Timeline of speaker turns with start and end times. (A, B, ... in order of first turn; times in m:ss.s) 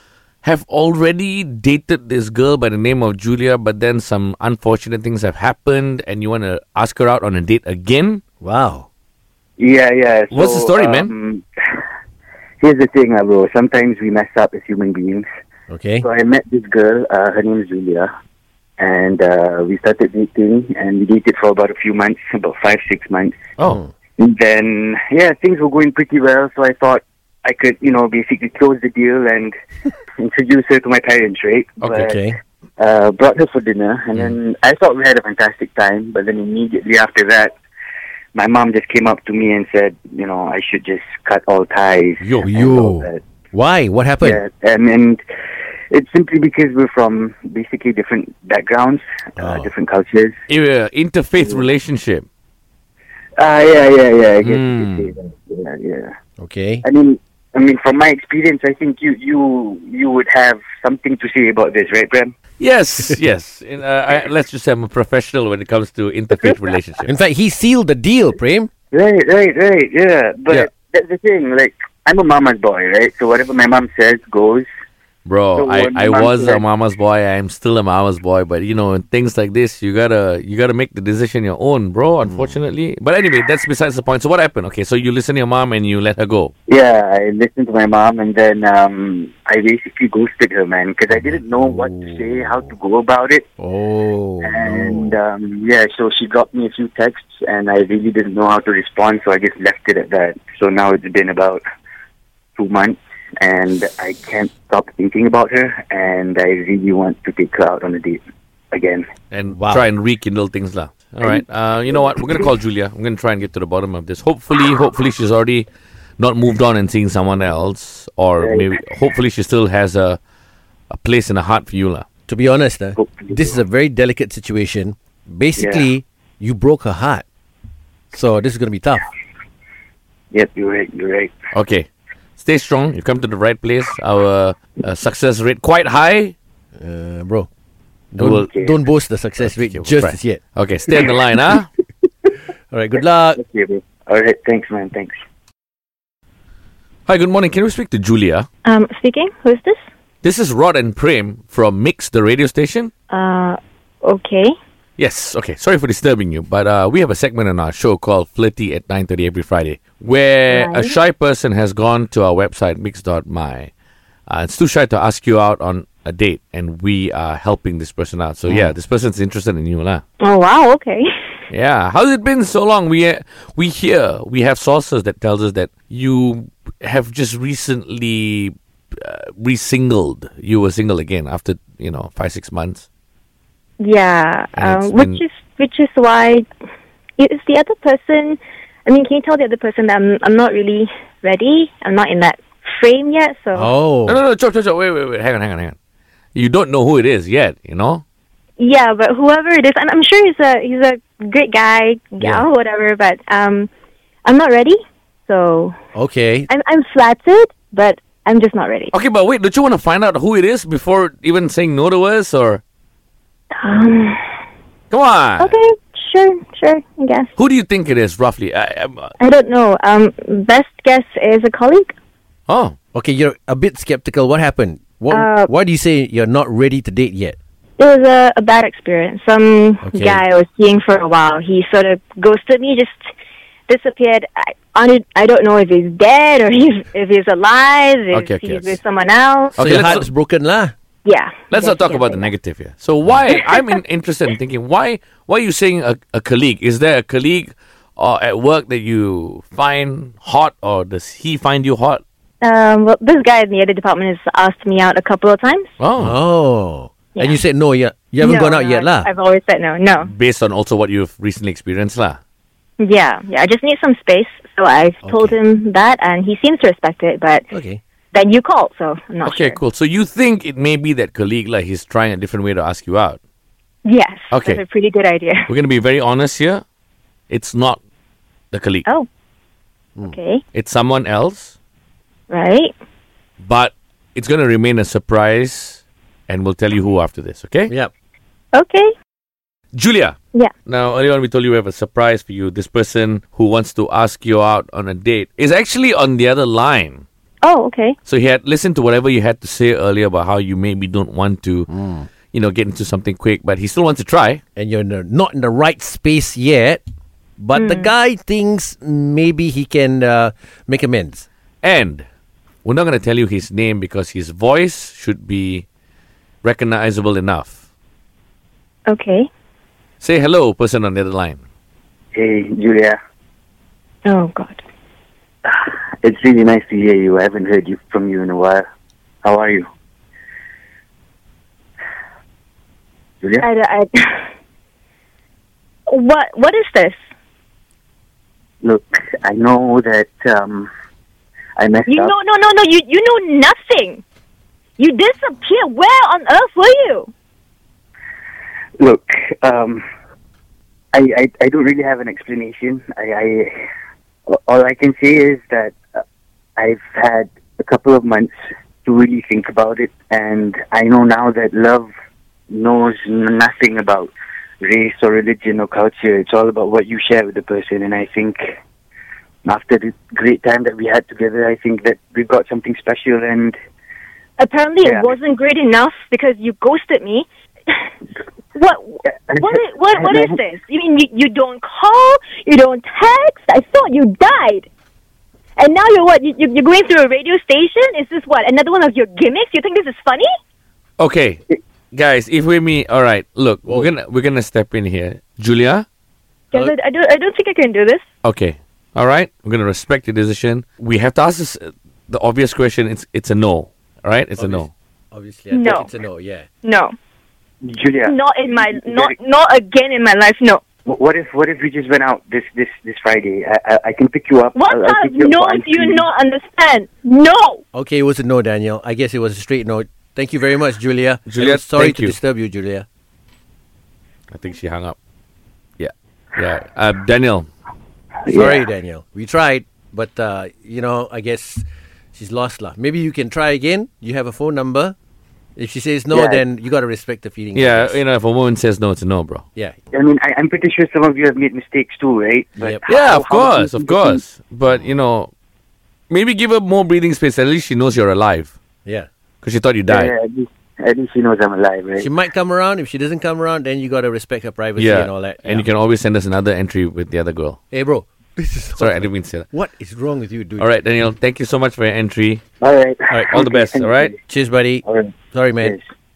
0:00.4-0:08.2 A
0:08.4-0:08.8 B
0:09.6-0:11.4 C
0:10.3-0:11.1 A
0:12.6-0:15.2 C
0:15.7-0:16.1 B
0:16.0-0:18.1 C
0:18.8-0:23.3 C
0:24.2-0:29.5 C
0:30.2-0:32.2 C
0:31.8-0:32.1 A
0:32.0-0:32.4 B
0:32.8-0:37.5 C
0:38.3-0:43.2 C
0:42.2-0:42.5 A
0:42.4-0:44.4 B
0:44.2-0:45.2 C
0:45.9-0:50.4 C
0:49.4-0:49.7 B
0:50.5-0:52.2 A
0:53.4-0:56.1 C
0:54.4-0:55.2 A
0:56.4-0:56.8 B
0:56.8-1:02.3 C
1:02.6-1:07.1 A
1:07.0-1:08.7 B
1:08.9-1:14.7 C
1:15.2-1:26.5 A
1:15.5-1:16.6 C
1:26.7-1:33.5 C
1:31.1-1:32.6 B
1:33.6-1:35.2 B
1:34.4-1:41.6 C
1:42.6-1:48.2 C
1:48.7-1:49.0 C
1:49.3-2:00.2 A
1:49.5-1:49.8 B
1:58.4-1:58.7 C
2:00.9-2:02.0 A
2:02.3-2:07.2 B
2:03.0-2:03.5 C
2:05.6-2:05.9 C
2:08.1-2:09.0 B
2:10.3-2:11.3 C
2:11.5-2:16.3 A
2:16.8-2:17.5 B
2:18.1-2:20.4 B
2:18.2-2:18.5 A
2:19.4-2:21.7 A
2:22.7-2:23.4 B
2:23.4-2:25.1 C
2:27.0-2:28.5 A
2:28.6-2:29.8 D
2:30.2-2:32.9 A
2:33.1-2:34.5 D
2:35.0-2:43.7 A
2:40.5-2:40.9 D
2:44.3-2:50.0 A
2:48.5-2:48.8 B
2:50.2-2:51.1 D
2:51.5-3:02.8 A
3:03.8-3:06.4 D
3:04.6-3:05.2 A
3:07.2-3:13.7 D
3:13.5-3:14.2 B
3:14.1-3:15.8 A
3:16.3-3:18.0 A
3:18.6-3:23.7 D
3:24.2-3:25.8 D
3:25.9-3:26.5 B
3:26.5-3:28.9 D
3:28.9-3:32.6 A
3:33.6-3:34.2 D
3:34.9-3:35.5 A
3:35.4-3:37.3 D
3:37.4-3:39.1 A
3:39.2-3:41.9 D
3:42.5-3:42.7 A
3:42.9-3:47.4 B
3:45.1-3:45.5 D
3:47.8-3:53.1 D
3:49.8-3:50.2 B
3:53.7-3:59.6 D
3:58.1-3:58.8 A
3:59.6-4:00.1 A
3:59.6-4:00.7 B
4:01.0-4:02.3 D
4:01.5-4:12.0 A
4:03.3-4:03.8 D
4:12.4-4:15.7 D
4:15.8-4:16.1 A
4:16.0-4:19.1 B
4:18.2-4:20.1 D
4:20.0-4:22.2 A
4:22.8-4:27.5 D
4:25.0-4:25.4 B
4:27.5-4:27.8 B
4:28.1-4:29.6 D
4:29.2-4:33.2 A
4:33.8-4:35.5 D
4:34.3-4:34.6 A
4:35.5-4:36.6 A
4:37.3-4:37.8 A
4:38.5-4:38.8 A
4:40.0-4:40.4 D
4:40.5-4:41.5 A
4:42.3-4:42.7 D
4:43.4-4:47.7 A
4:48.5-4:48.9 D
4:49.7-4:57.0 A
4:57.4-4:58.0 D
4:58.0-5:01.7 A
5:01.7-5:02.1 B
5:02.2-5:04.4 A
5:04.6-5:06.8 B
5:07.4-5:11.2 B
5:07.5-5:07.9 D
5:11.6-5:12.0 A
5:12.6-5:15.6 A
5:16.4-5:17.6 A
5:18.9-5:19.3 D
5:20.0-5:21.4 A
5:22.1-5:23.0 C
5:24.0-5:24.6 D
5:25.4-5:28.6 C
5:29.2-5:29.6 C
5:33.4-5:34.2 D
5:35.9-5:37.0 D
5:38.6-5:40.7 C
5:41.6-5:42.1 C
5:41.9-5:44.0 D
5:44.8-5:47.1 D
5:48.8-5:49.8 C
5:50.9-5:53.5 C
5:54.3-5:56.0 C
5:56.6-5:58.3 C
5:58.8-6:01.9 C
6:02.5-6:04.1 C
6:04.6-6:08.6 C
6:09.4-6:13.6 C
6:14.4-6:17.8 D
6:14.8-6:15.1 C
6:18.5-6:24.7 D
6:19.3-6:20.4 C
6:25.6-6:30.3 D
6:31.0-6:31.4 A
6:31.9-6:35.8 A
6:36.5-6:38.0 D
6:38.2-6:44.7 A
6:44.4-6:46.5 B
6:45.5-6:45.9 D
6:46.6-6:46.9 D
6:47.6-6:49.1 C
6:48.0-6:50.6 D
6:50.8-6:56.0 C
6:54.5-6:57.6 D
6:57.7-7:02.8 B
7:01.3-7:02.2 A
7:04.3-7:05.0 A
7:05.8-7:07.5 A
7:08.2-7:08.6 C
7:08.3-7:14.9 B
7:15.6-7:18.0 B
7:16.1-7:16.4 C
7:17.5-7:19.4 A
7:19.6-7:19.8 B
7:19.9-7:24.2 C
7:22.8-7:25.3 A
7:26.1-7:28.5 A
7:29.4-7:30.1 A
7:29.9-7:32.1 C
7:32.0-7:35.6 B
7:34.8-7:37.6 A
7:37.7-7:40.7 B
7:38.8-7:39.4 A
7:40.6-7:42.4 A
7:42.6-7:44.2 C
7:43.1-7:43.4 B
7:43.3-7:44.1 A
7:44.3-7:45.8 B
7:44.8-7:45.8 C